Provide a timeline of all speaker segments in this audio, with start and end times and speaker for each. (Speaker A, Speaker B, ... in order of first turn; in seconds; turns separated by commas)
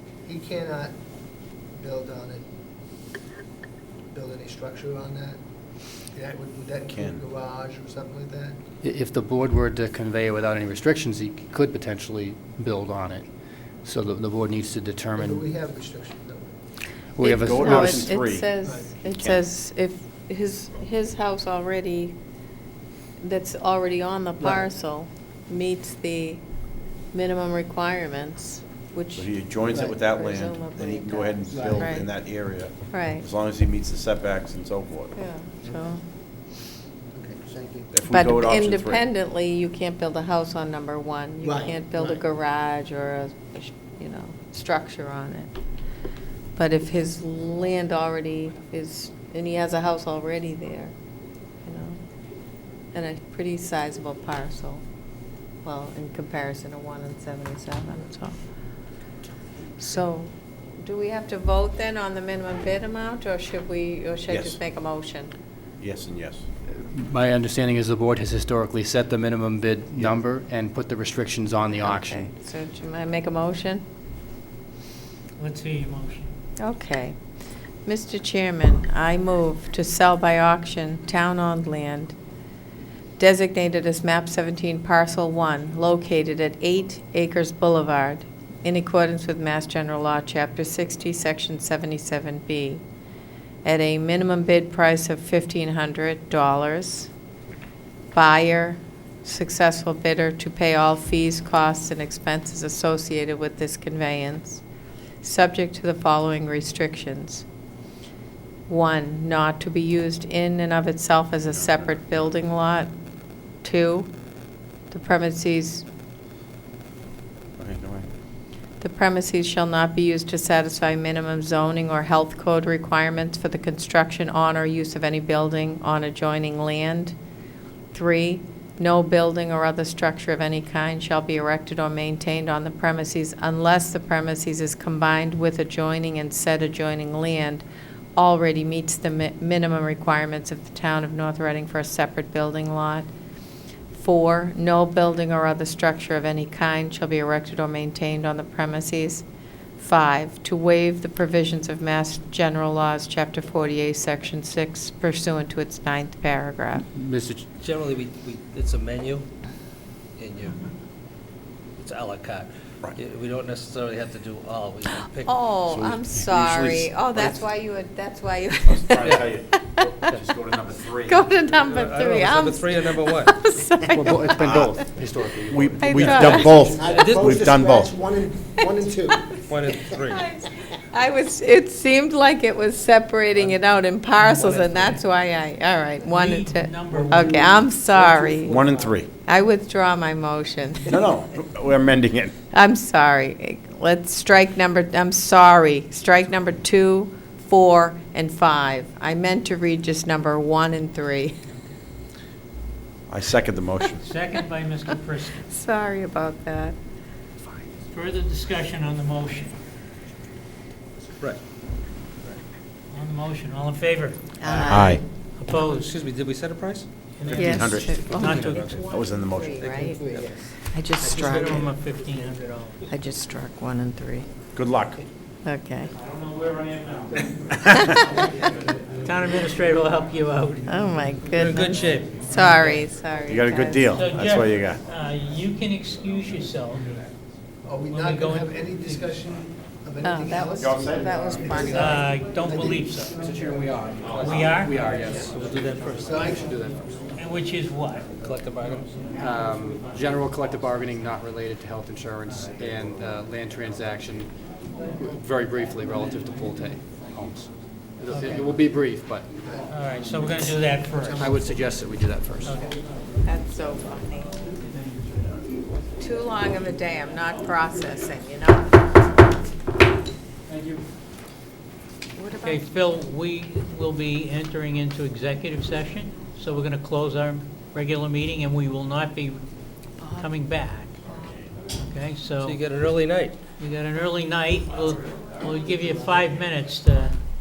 Speaker A: 0.2-0.9, Speaker A: 1.8-2.4, Speaker A: 4.1-5.4, Speaker A: 6.1-8.6, Speaker B: 6.9-7.2, Speaker C: 8.8-13.3, Speaker C: 13.8-15.4, Speaker A: 15.2-16.6, Speaker C: 17.2-18.0, Speaker D: 17.2-22.2, Speaker B: 17.2-18.5, Speaker A: 18.6-18.9, Speaker D: 23.2-26.4, Speaker D: 27.1-29.3, Speaker B: 29.2-35.1, Speaker D: 29.8-32.1, Speaker A: 31.5-31.9, Speaker D: 32.9-33.2, Speaker D: 35.1-36.0, Speaker A: 37.1-37.9, Speaker B: 37.9-39.0, Speaker D: 38.1-45.5, Speaker A: 41.4-42.2, Speaker D: 46.6-50.9, Speaker D: 51.6-52.0, Speaker D: 52.9-54.8, Speaker D: 55.6-58.4, Speaker D: 59.8-65.3, Speaker B: 64.3-64.6, Speaker B: 65.8-66.4, Speaker C: 66.7-72.3, Speaker D: 71.8-73.8, Speaker E: 75.4-76.3, Speaker D: 76.6-77.2, Speaker D: 77.9-82.2, Speaker D: 83.2-92.8, Speaker D: 93.7-97.1, Speaker D: 98.1-104.6, Speaker D: 105.2-107.5, Speaker D: 108.7-112.9, Speaker D: 113.6-114.1, Speaker D: 114.9-115.9, Speaker B: 117.6-118.1, Speaker D: 118.8-127.2, Speaker D: 127.9-137.7, Speaker D: 138.2-143.1, Speaker D: 143.9-149.2, Speaker D: 149.8-156.9, Speaker C: 156.9-157.4, Speaker F: 157.6-159.3, Speaker F: 160.2-160.6, Speaker F: 161.8-165.3, Speaker D: 165.2-169.9, Speaker B: 165.7-167.3, Speaker B: 168.7-171.3, Speaker D: 171.1-174.6, Speaker F: 171.5-173.4, Speaker C: 173.9-176.6, Speaker B: 174.4-174.7, Speaker B: 175.5-177.9, Speaker D: 175.8-176.8, Speaker A: 176.7-179.4, Speaker F: 176.8-177.4, Speaker F: 179.4-180.2, Speaker D: 179.9-188.6, Speaker F: 184.4-184.8, Speaker E: 186.0-187.4, Speaker A: 186.9-188.9, Speaker B: 188.5-189.1, Speaker D: 189.2-191.0, Speaker B: 190.9-192.3, Speaker D: 192.5-201.4, Speaker B: 203.1-204.0, Speaker E: 204.0-205.5, Speaker D: 205.5-206.8, Speaker E: 207.9-209.6, Speaker E: 212.9-216.0, Speaker D: 214.4-215.0, Speaker B: 214.6-215.0, Speaker F: 215.6-216.9, Speaker E: 217.2-218.9, Speaker B: 217.2-219.6, Speaker D: 217.3-220.0, Speaker F: 219.6-220.4, Speaker A: 219.6-220.5, Speaker D: 220.7-221.7, Speaker E: 221.0-222.9, Speaker D: 222.9-224.3, Speaker B: 224.6-225.0, Speaker D: 225.4-225.9, Speaker E: 226.0-230.7, Speaker D: 230.7-234.1, Speaker F: 231.4-232.2, Speaker E: 232.2-232.8, Speaker B: 233.3-234.8, Speaker E: 233.9-236.9, Speaker A: 237.7-243.3, Speaker E: 237.9-239.1, Speaker D: 240.0-242.1, Speaker B: 240.6-241.6, Speaker E: 241.7-243.2, Speaker C: 243.2-245.4, Speaker E: 244.2-244.9, Speaker F: 245.2-246.2, Speaker A: 246.0-246.8, Speaker C: 246.3-246.9, Speaker E: 247.2-248.1, Speaker F: 248.2-248.9, Speaker C: 249.2-254.3, Speaker C: 255.0-259.3, Speaker A: 258.1-258.5, Speaker A: 259.4-261.8, Speaker E: 259.7-261.3, Speaker C: 261.2-262.6, Speaker E: 262.4-262.8, Speaker D: 263.2-264.5, Speaker D: 266.0-268.9, Speaker D: 272.2-272.7, Speaker E: 272.4-279.4, Speaker D: 280.0-280.3, Speaker E: 280.2-280.9, Speaker D: 281.1-281.4, Speaker E: 281.8-282.6, Speaker F: 282.4-283.4, Speaker E: 283.6-287.2